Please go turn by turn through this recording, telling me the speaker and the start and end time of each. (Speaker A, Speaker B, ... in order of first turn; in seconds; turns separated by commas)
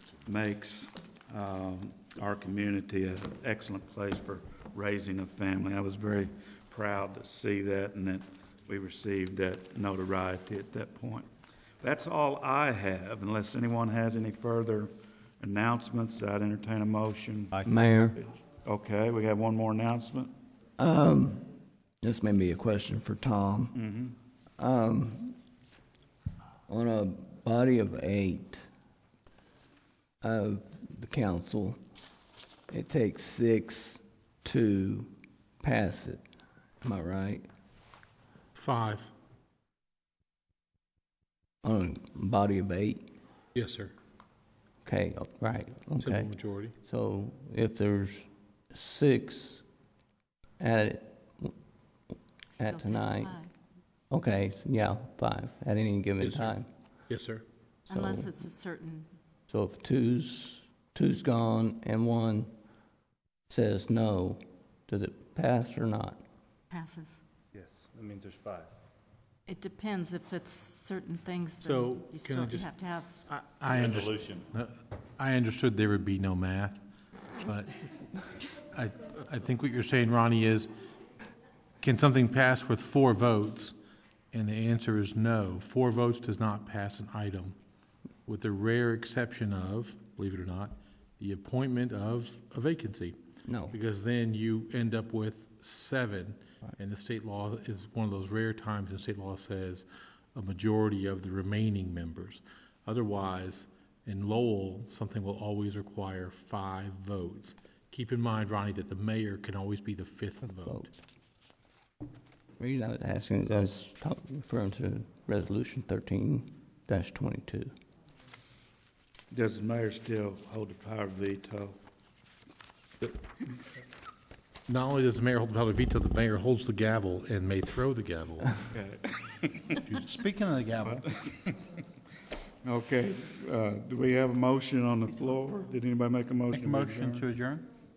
Speaker A: 0.2-11.3, Speaker A: 11.8-17.6, Speaker B: 17.5-17.8, Speaker C: 17.6-18.2, Speaker A: 18.1-20.3, Speaker C: 20.8-21.5, Speaker C: 22.0-23.8, Speaker A: 23.7-24.1, Speaker C: 24.6-25.4, Speaker C: 26.7-28.6, Speaker C: 30.2-31.8, Speaker C: 32.7-36.2, Speaker C: 36.8-37.4, Speaker D: 38.5-39.1, Speaker C: 41.6-43.0, Speaker D: 43.5-43.9, Speaker C: 44.8-49.6, Speaker D: 46.0-46.7, Speaker C: 50.6-51.5, Speaker E: 52.6-53.5, Speaker C: 52.6-53.3, Speaker C: 54.1-56.7, Speaker D: 56.2-57.4, Speaker C: 57.9-58.3, Speaker E: 57.9-59.1, Speaker C: 59.5-62.5, Speaker C: 63.5-66.2, Speaker E: 66.7-67.2, Speaker B: 67.5-68.7, Speaker E: 69.5-73.1, Speaker D: 71.6-72.7, Speaker D: 73.3-76.8, Speaker A: 73.7-74.5, Speaker D: 77.4-77.8, Speaker D: 78.7-80.7, Speaker D: 81.8-83.8, Speaker D: 84.3-87.5, Speaker D: 88.2-93.2, Speaker C: 93.5-93.8, Speaker D: 93.7-110.9, Speaker C: 110.4-110.9, Speaker C: 112.6-117.7, Speaker A: 119.3-121.8, Speaker D: 124.7-128.7, Speaker A: 128.7-129.8, Speaker B: 129.9-131.1, Speaker A: 130.8-131.6, Speaker A: 132.6-137.2, Speaker B: 136.5-137.7